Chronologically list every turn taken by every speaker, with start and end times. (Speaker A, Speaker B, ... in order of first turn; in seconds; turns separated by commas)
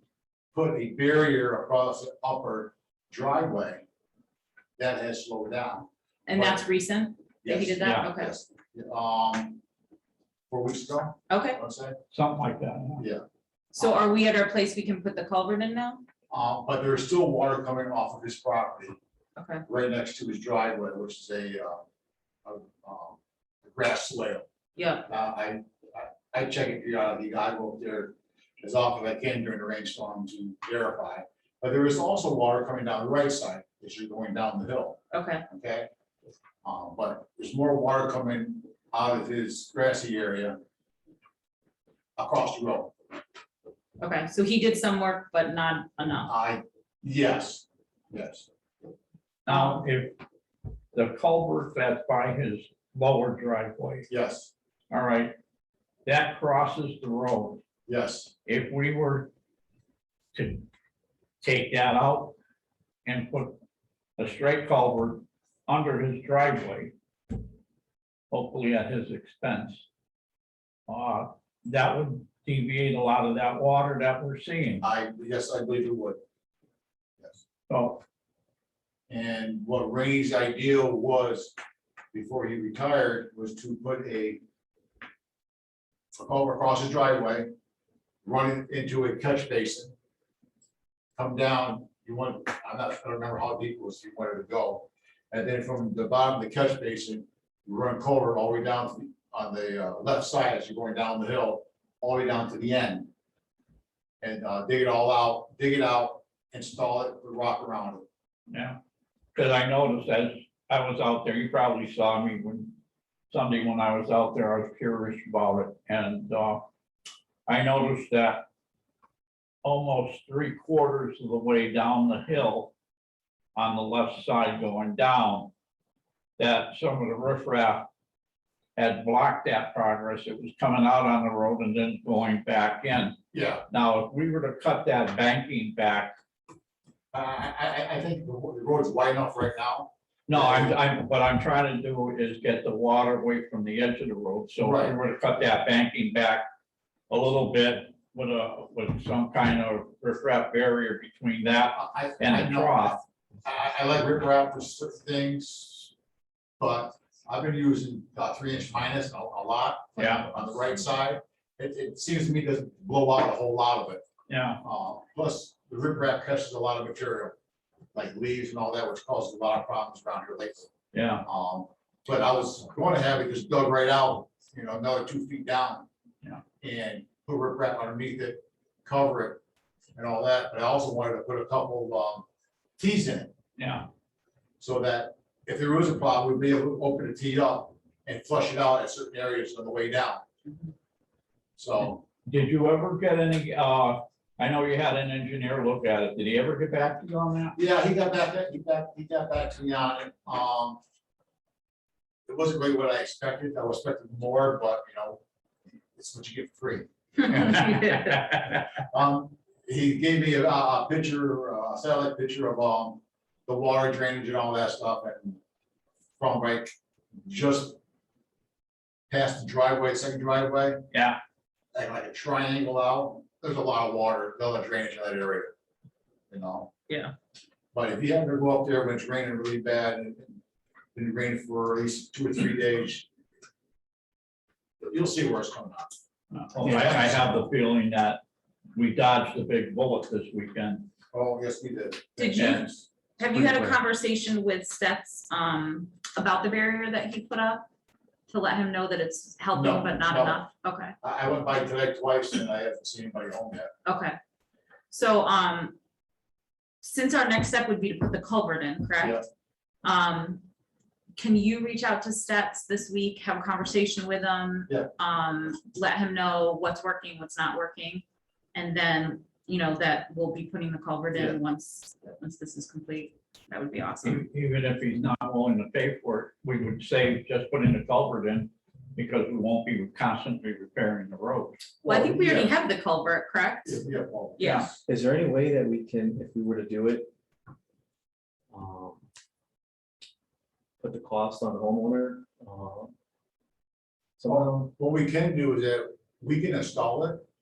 Speaker A: 0.5-3.9, Speaker A: 4.8-6.6, Speaker B: 6.3-8.3, Speaker A: 7.4-9.6, Speaker A: 10.5-12.0, Speaker B: 11.3-11.6, Speaker C: 12.1-13.1, Speaker B: 13.7-16.0, Speaker A: 16.3-19.0, Speaker B: 19.4-19.6, Speaker A: 19.7-21.8, Speaker A: 22.4-24.5, Speaker B: 24.8-25.1, Speaker A: 25.1-35.9, Speaker B: 35.1-35.5, Speaker A: 36.6-40.6, Speaker A: 42.2-42.9, Speaker B: 44.0-46.3, Speaker A: 46.3-48.5, Speaker C: 49.5-50.2, Speaker B: 49.5-49.8, Speaker C: 50.9-54.1, Speaker A: 54.1-54.5, Speaker C: 54.9-55.4, Speaker C: 56.0-57.6, Speaker A: 57.9-58.3, Speaker C: 58.5-59.3, Speaker C: 60.3-60.7, Speaker C: 61.4-62.4, Speaker C: 63.0-63.6, Speaker C: 64.2-66.9, Speaker C: 68.3-69.9, Speaker C: 70.9-74.8, Speaker A: 74.8-76.2, Speaker C: 77.7-78.0, Speaker A: 79.1-81.5, Speaker A: 82.1-84.4, Speaker A: 86.2-87.5, Speaker A: 88.2-89.9, Speaker A: 91.2-103.1, Speaker A: 104.2-108.0, Speaker C: 108.5-108.8, Speaker C: 109.3-112.8, Speaker C: 113.3-116.6, Speaker C: 117.5-118.5, Speaker C: 119.6-122.7, Speaker C: 123.6-125.5, Speaker C: 126.4-127.9, Speaker C: 128.8-133.2, Speaker A: 133.3-133.7, Speaker C: 133.7-136.1, Speaker A: 137.1-140.8, Speaker C: 140.3-146.4, Speaker A: 144.6-144.9, Speaker C: 147.1-153.0, Speaker A: 151.8-155.9, Speaker A: 156.6-164.0, Speaker C: 160.0-160.3, Speaker C: 164.3-164.6, Speaker A: 164.6-167.3, Speaker A: 167.9-170.7, Speaker C: 170.9-171.2, Speaker A: 171.2-175.9, Speaker A: 176.6-179.4, Speaker A: 179.9-182.3, Speaker A: 182.8-183.3, Speaker C: 183.6-183.9, Speaker A: 184.6-190.3, Speaker A: 191.6-192.0, Speaker C: 192.3-197.6, Speaker A: 197.6-200.8, Speaker A: 202.3-205.2, Speaker A: 206.0-215.4, Speaker B: 207.3-208.2, Speaker A: 216.2-216.7, Speaker A: 217.2-217.8, Speaker A: 219.1-220.8, Speaker C: 220.9-221.2, Speaker A: 221.8-225.5, Speaker A: 226.3-226.7, Speaker A: 227.7-230.4, Speaker A: 230.9-233.1, Speaker A: 234.8-236.0, Speaker C: 236.3-238.2, Speaker A: 236.6-237.4, Speaker C: 238.8-240.9, Speaker A: 241.1-242.9, Speaker B: 242.2-242.6, Speaker C: 242.4-242.6, Speaker B: 243.2-247.7, Speaker B: 248.3-250.9, Speaker A: 249.5-250.4, Speaker A: 251.0-253.7, Speaker B: 253.8-254.2, Speaker B: 254.9-255.8, Speaker B: 256.8-259.2, Speaker A: 259.0-259.2, Speaker B: 259.8-260.4, Speaker B: 261.2-274.2, Speaker C: 274.0-281.7, Speaker A: 281.8-282.5, Speaker B: 281.8-283.8, Speaker A: 283.6-284.8, Speaker B: 284.4-284.7, Speaker D: 284.9-287.1, Speaker D: 288.5-289.0, Speaker D: 290.8-292.9, Speaker D: 294.2-294.7, Speaker A: 294.3-297.2